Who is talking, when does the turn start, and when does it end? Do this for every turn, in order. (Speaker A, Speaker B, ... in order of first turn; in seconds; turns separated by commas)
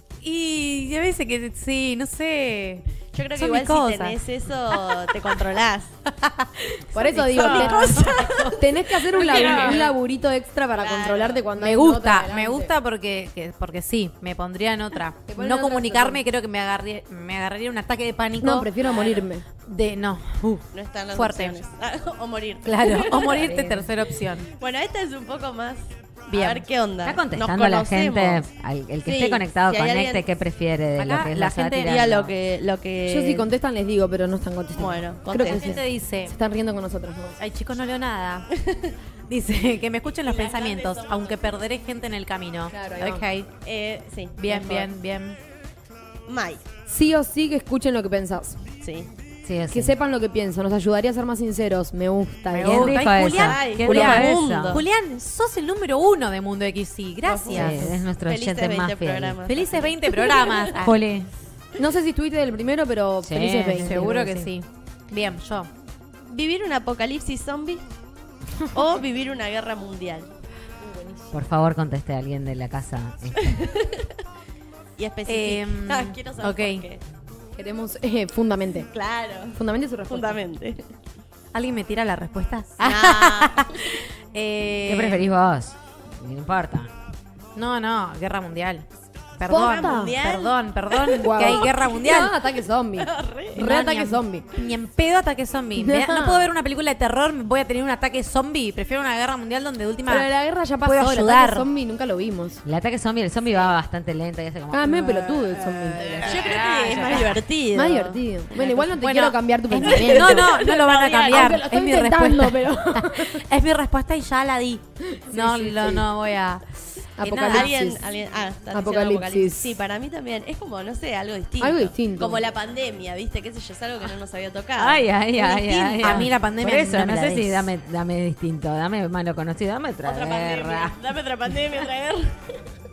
Speaker A: 0.2-2.8, Speaker B: 3.1-5.9, Speaker A: 3.3-4.2, Speaker A: 4.7-5.1, Speaker A: 6.1-9.9, Speaker C: 6.9-12.7, Speaker B: 7.0-9.9, Speaker B: 10.7-11.5, Speaker A: 11.5-18.7, Speaker C: 15.3-16.2, Speaker C: 18.4-19.4, Speaker B: 18.8-19.2, Speaker A: 19.6-21.6, Speaker B: 20.7-23.6, Speaker A: 22.6-24.5, Speaker B: 24.5-28.4, Speaker A: 26.3-26.6, Speaker D: 27.0-32.3, Speaker B: 29.0-30.2, Speaker A: 31.0-31.9, Speaker B: 31.8-33.5, Speaker C: 33.0-37.4, Speaker B: 34.7-35.8, Speaker A: 35.3-36.3, Speaker A: 37.4-38.5, Speaker B: 38.6-38.9, Speaker A: 39.3-43.5, Speaker B: 40.2-41.5, Speaker C: 42.7-43.2, Speaker B: 43.6-44.9, Speaker A: 44.4-45.4, Speaker B: 46.3-46.6, Speaker C: 46.9-48.6, Speaker B: 48.8-49.1, Speaker D: 49.4-49.9, Speaker C: 49.7-53.0, Speaker A: 52.5-58.0, Speaker D: 52.6-54.8, Speaker B: 53.2-54.8, Speaker B: 57.2-60.7, Speaker D: 57.5-59.4, Speaker A: 59.5-61.0, Speaker D: 60.7-61.3, Speaker C: 61.8-64.5, Speaker D: 63.2-64.2, Speaker A: 63.7-65.7, Speaker B: 66.3-67.8, Speaker B: 68.7-70.3, Speaker C: 70.8-71.3, Speaker D: 71.3-73.5, Speaker B: 73.4-74.1, Speaker B: 75.0-77.0, Speaker A: 75.3-76.8, Speaker C: 77.5-78.9, Speaker B: 78.9-80.8, Speaker C: 79.5-80.4, Speaker A: 81.5-85.2, Speaker B: 82.8-83.9, Speaker D: 84.8-86.9, Speaker A: 87.5-88.8, Speaker A: 89.4-92.4, Speaker C: 89.5-90.2, Speaker B: 89.5-91.8, Speaker C: 91.2-94.5, Speaker B: 93.0-93.6, Speaker A: 93.5-100.3, Speaker C: 95.7-96.5, Speaker C: 100.1-102.6, Speaker A: 100.8-101.7, Speaker D: 102.6-105.5, Speaker C: 104.7-106.5, Speaker A: 105.7-107.4, Speaker B: 106.2-108.2, Speaker C: 107.7-110.6, Speaker A: 108.5-116.6, Speaker B: 109.8-111.6, Speaker C: 111.3-113.4, Speaker C: 115.1-116.0, Speaker C: 117.2-118.0, Speaker A: 117.2-117.7, Speaker B: 117.3-126.3, Speaker C: 118.7-119.8, Speaker C: 121.6-122.4, Speaker D: 124.8-130.9, Speaker A: 126.0-127.7, Speaker B: 130.0-132.4